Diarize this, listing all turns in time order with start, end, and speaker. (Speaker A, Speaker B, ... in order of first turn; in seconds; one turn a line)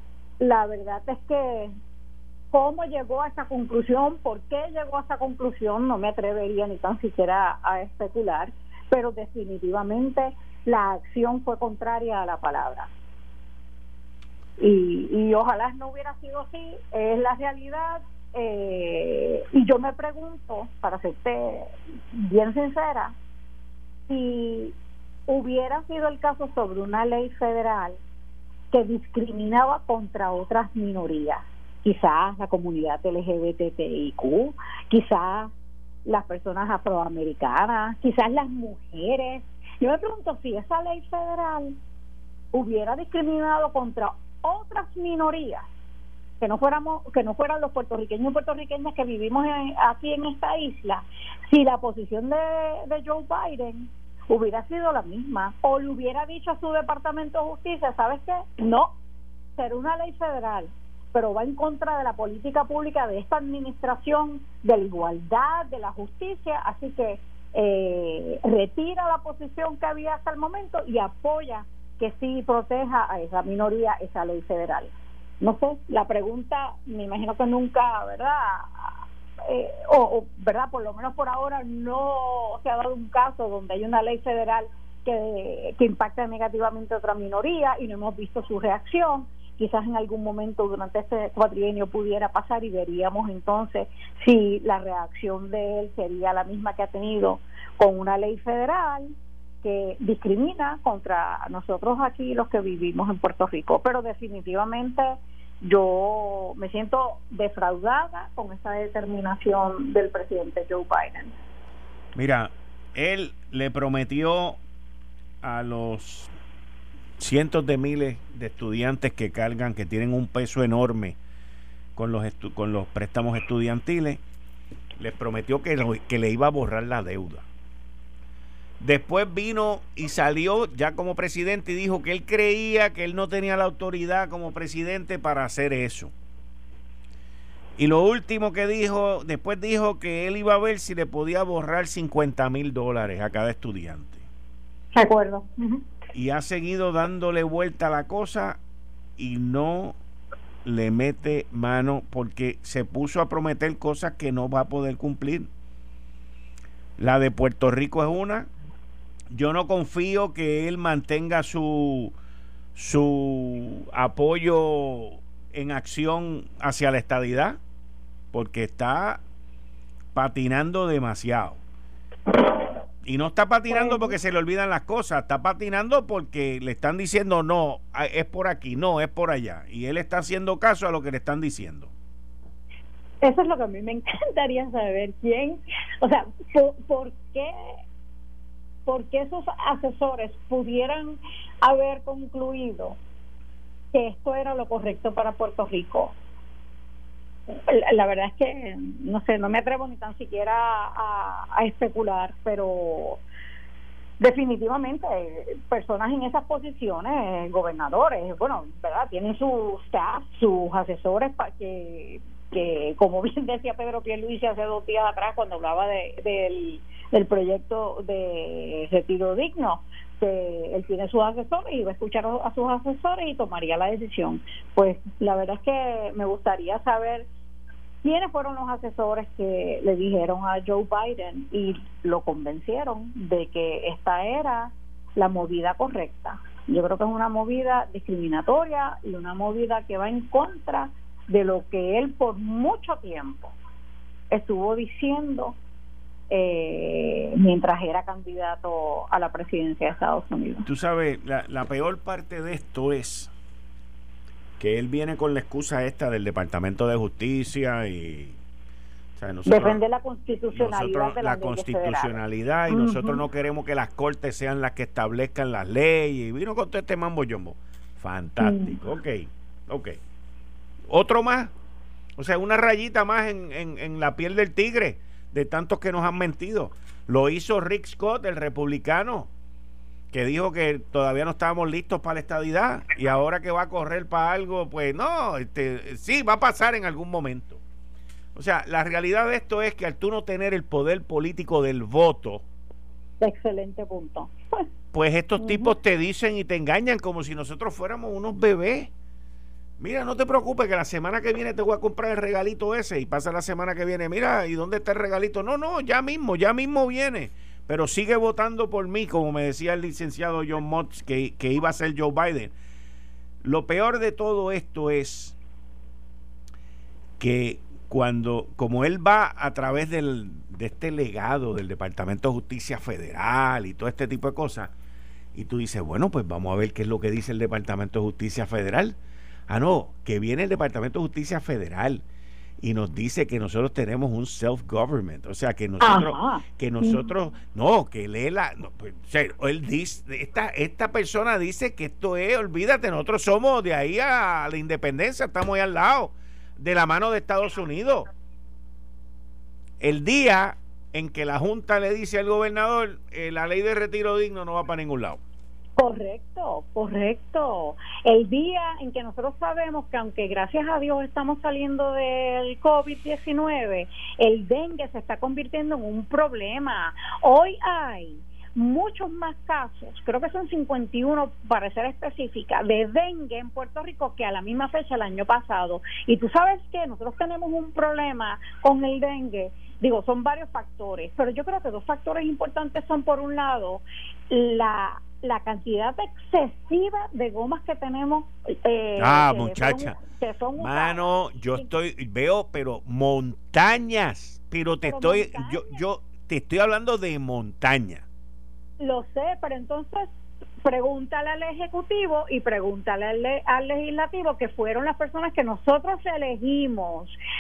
Speaker A: 0.4-1.7
Speaker A: 2.5-12.9
Speaker A: 14.6-23.1
Speaker A: 24.1-24.8
Speaker A: 25.3-28.0
Speaker A: 28.7-35.5
Speaker A: 36.0-41.8
Speaker A: 42.5-45.7
Speaker A: 46.4-58.9
Speaker A: 59.6-78.9
Speaker A: 79.5-111.3
Speaker B: 112.2-114.6
Speaker B: 115.4-116.3
Speaker B: 117.2-121.2
Speaker B: 122.0-124.2
Speaker B: 125.0-127.5
Speaker B: 128.8-136.1
Speaker B: 137.8-144.2
Speaker A: 144.9-145.8
Speaker B: 146.1-148.6
Speaker B: 149.2-150.0
Speaker B: 150.7-155.5
Speaker B: 157.0-158.5
Speaker B: 159.3-162.1
Speaker B: 162.8-167.6
Speaker B: 168.3-169.2
Speaker B: 170.2-171.6
Speaker B: 173.0-181.9
Speaker A: 173.7-174.2
Speaker A: 183.2-187.5
Speaker A: 188.9-193.0
Speaker A: 193.9-196.2
Speaker A: 197.5-203.2
Speaker A: 204.2-227.3
Speaker A: 228.0-243.5
Speaker A: 244.3-245.6
Speaker A: 246.3-250.7
Speaker B: 250.7-253.3
Speaker B: 254.6-258.4
Speaker B: 259.2-259.8
Speaker A: 259.5-262.1
Speaker B: 260.5-270.0
Speaker A: 262.7-263.2
Speaker A: 268.4-268.8
Speaker B: 270.9-271.5
Speaker B: 272.2-279.3
Speaker B: 280.1-287.6
Speaker B: 288.4-292.4
Speaker A: 293.2-294.7
Speaker B: 294.9-298.9
Speaker A: 295.4-295.7
Speaker B: 299.8-312.5
Speaker B: 313.4-315.4
Speaker B: 317.2-324.7
Speaker B: 325.4-329.0
Speaker B: 329.5-332.0
Speaker B: 332.6-348.1
Speaker A: 335.8-337.1
Speaker B: 349.8-355.2
Speaker A: 355.8-391.7
Speaker B: 389.0-390.0
Speaker B: 390.6-398.1
Speaker A: 394.8-395.8
Speaker A: 398.8-400.1
Speaker A: 400.6-407.1